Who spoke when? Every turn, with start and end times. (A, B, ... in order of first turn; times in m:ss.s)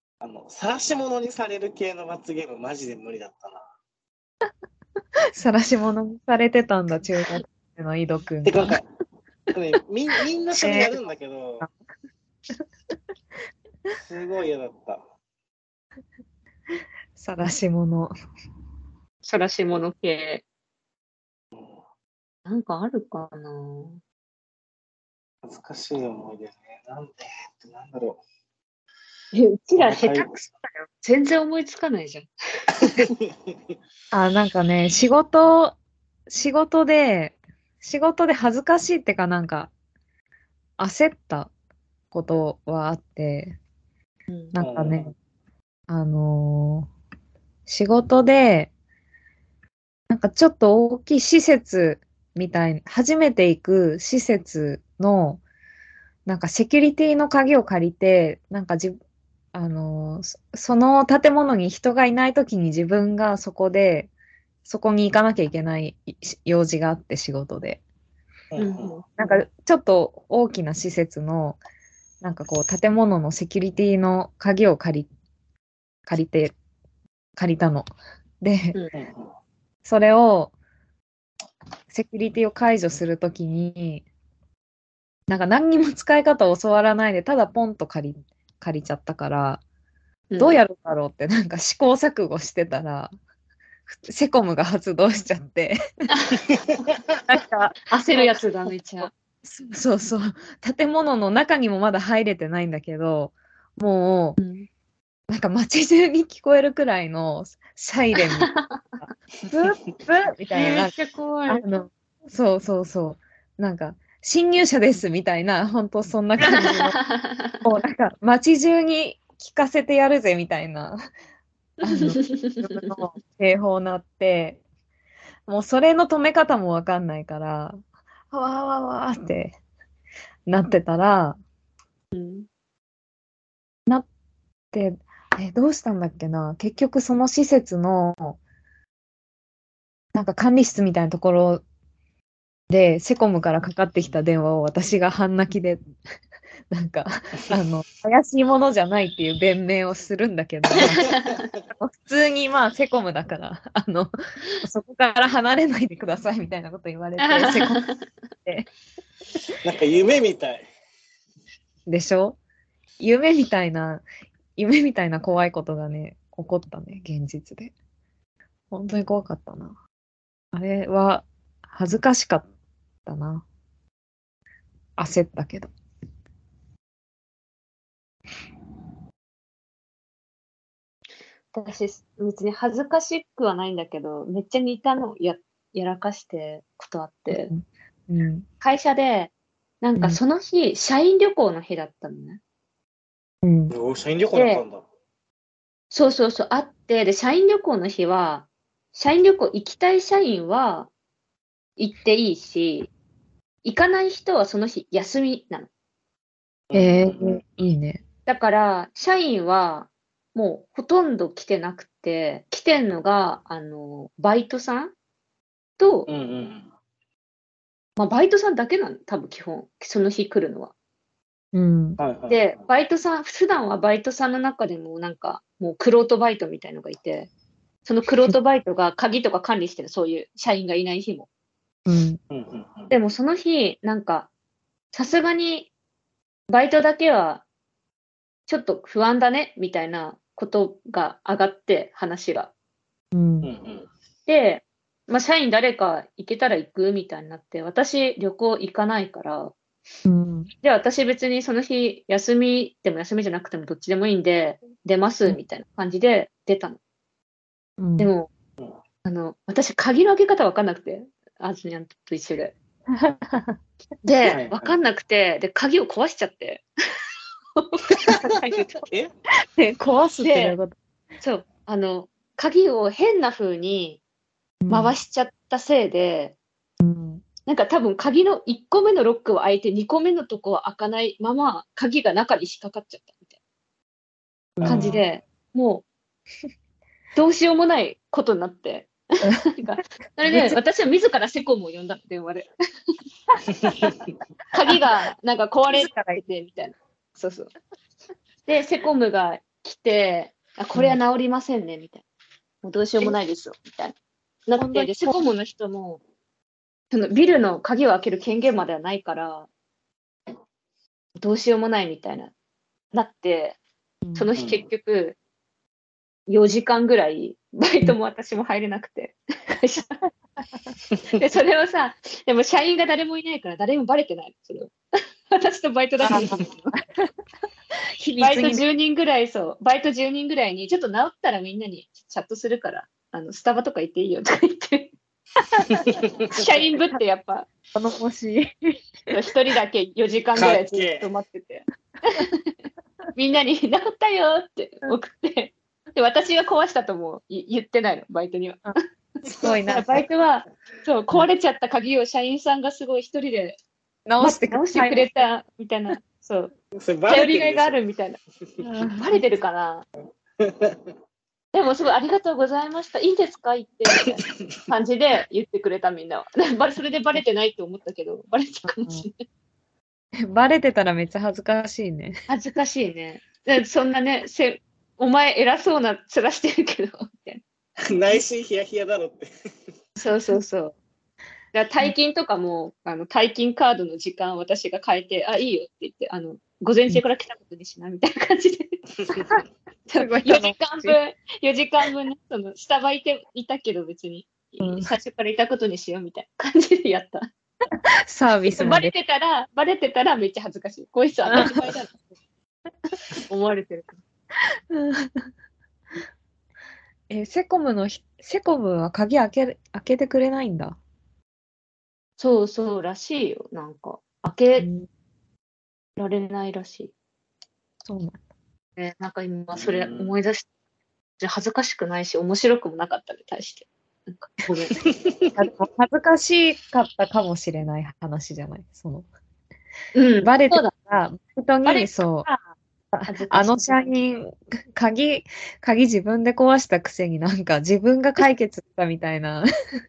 0:00.2-0:03.7 A
0:05.4-0:08.8 B
0:08.4-0:08.8 A
0:09.5-0:11.7 A
0:10.5-0:11.0 B
0:14.0-0:15.0 A
0:17.2-0:18.1 B
0:19.2-0:20.4 C
0:22.4-0:24.0 C
0:25.4-0:28.2 A
0:29.3-0:32.3 C
0:29.8-0:30.3 A
0:32.7-0:33.6 A
0:32.8-0:33.1 C
0:34.1-0:35.8 B
0:36.3-0:39.7 B
0:40.8-0:41.5 B
0:42.1-0:43.6 B
0:44.3-0:44.5 C
0:44.5-0:45.1 B
0:44.6-0:45.1 A
0:45.9-0:46.9 B
0:47.7-0:48.7 B
0:50.1-0:55.4 B
0:56.2-0:59.0 B
0:59.5-1:04.1 B
1:04.6-1:07.8 B
1:08.5-1:08.9 A
1:08.6-1:09.1 C
1:09.2-1:11.6 B
1:12.2-1:15.1 B
1:16.1-1:16.5 B
1:17.4-1:17.9 B
1:18.4-1:18.8 B
1:18.9-1:19.3 A
1:19.8-1:20.5 B
1:21.9-1:24.0 B
1:25.3-1:29.6 B
1:30.3-1:30.6 C
1:30.4-1:33.1 B
1:33.9-1:35.8 B
1:37.3-1:38.3 B
1:37.9-1:39.1 C
1:39.0-1:44.4 B
1:44.4-1:44.7 C
1:45.3-1:50.9 B
1:48.2-1:48.8 C
1:50.5-1:51.6 C
1:51.5-1:57.0 B
1:56.4-1:57.6 C
1:57.6-2:01.0 B
2:01.8-2:02.9 C
2:01.8-2:04.6 B
2:05.5-2:07.8 B
2:08.3-2:09.6 B
2:10.5-2:11.4 B
2:12.1-2:12.5 C
2:14.7-2:18.4 B
2:20.1-2:21.6 B
2:22.7-2:25.8 B
2:26.7-2:31.1 B
2:31.0-2:31.3 C
2:31.7-2:37.8 B
2:37.2-2:38.0 C
2:39.6-2:40.6 A
2:41.9-2:42.4 B
2:43.0-2:44.0 B
2:44.6-2:47.7 B
2:48.7-2:49.7 B
2:50.5-2:52.5 B
2:53.0-2:53.4 B
2:55.0-2:55.7 B
3:01.5-3:07.5 C
3:07.3-3:08.4 B
3:08.6-3:12.4 C
3:13.4-3:13.7 B
3:13.7-3:14.8 A
3:14.3-3:14.6 C
3:15.9-3:20.9 C
3:21.8-3:22.9 C
3:23.6-3:25.7 C
3:26.7-3:27.4 A
3:26.7-3:28.0 B
3:28.3-3:34.9 C
3:35.8-3:36.1 C
3:36.1-3:36.7 A
3:38.0-3:40.7 C
3:41.5-3:42.0 B
3:42.0-3:42.5 A
3:42.3-3:47.3 C
3:47.8-3:51.3 C
3:51.8-3:52.2 B
3:52.3-3:52.9 A
3:52.9-3:54.3 C
3:54.9-3:55.7 C
3:56.5-3:57.4 C
3:58.5-4:02.5 C
4:03.1-4:03.5 B
4:03.4-4:03.9 A
4:04.3-4:09.5 C
4:10.0-4:10.5 B
4:10.6-4:16.8 C
4:17.8-4:18.1 B
4:18.0-4:18.3 C
4:19.0-4:22.5 C
4:22.9-4:23.6 B
4:24.0-4:26.6 C
4:24.3-4:24.8 A
4:27.6-4:28.8 C
4:28.8-4:29.1 A
4:29.6-4:30.7 B
4:30.2-4:30.6 C
4:31.2-4:34.0 C
4:34.6-4:35.0 B
4:34.7-4:36.4 C
4:36.8-4:37.2 B
4:37.5-4:43.3 C
4:44.6-4:45.0 A
4:44.6-4:45.0 B
4:44.6-4:45.8 C
4:47.1-4:52.5 C
4:50.3-4:50.6 B
4:53.6-4:53.9 A
4:54.5-4:57.5 C
4:55.7-4:56.2 B
4:58.4-5:02.0 C
5:02.6-5:03.9 C
5:04.5-5:06.0 C
5:04.6-5:05.1 B
5:06.9-5:09.5 C
5:11.2-5:12.3 C
5:12.9-5:13.6 C
5:14.0-5:14.3 B
5:14.1-5:15.2 C
5:14.4-5:14.6 A
5:16.3-5:19.9 C
5:21.1-5:24.7 C
5:25.3-5:26.7 C
5:26.0-5:26.8 B
5:28.0-5:28.6 B
5:28.2-5:34.9 C
5:36.3-5:37.5 C
5:36.7-5:37.0 B
5:37.7-5:38.8 B
5:39.1-5:42.5 C
5:40.4-5:41.1 A
5:43.1-5:48.7 C
5:49.2-5:50.0 B
5:49.6-5:53.6 C
5:54.0-5:55.1 B
5:54.2-5:56.5 C
5:56.8-5:57.8 A
5:57.1-5:58.2 C
5:58.6-5:59.0 B
5:58.8-5:59.8 C
6:00.4-6:00.9 A
6:01.5-6:09.2 C
6:08.7-6:09.0 B
6:10.2-6:12.2 B
6:12.3-6:17.4 C
6:17.8-6:19.3 A
6:20.0-6:20.8 C
6:21.5-6:28.8 C
6:29.9-6:37.3 C
6:30.0-6:31.0 B
6:34.6-6:34.9 B
6:38.1-6:38.9 B
6:38.6-6:41.9 C
6:41.3-6:41.6 B
6:43.2-6:44.0 C
6:44.7-6:45.3 B
6:47.1-6:50.8 B
6:52.2-6:54.7 C
6:54.6-6:54.9 B
6:56.0-6:56.9 C
6:57.8-6:58.2 B
6:58.8-7:00.5 C
6:59.5-7:00.1 A
7:01.2-7:04.8 C
7:04.8-7:05.3 A
7:05.3-7:09.1 B
7:09.9-7:10.7 C
7:10.2-7:12.3 B
7:11.6-7:12.4 C
7:12.9-7:19.4 B
7:13.1-7:13.9 C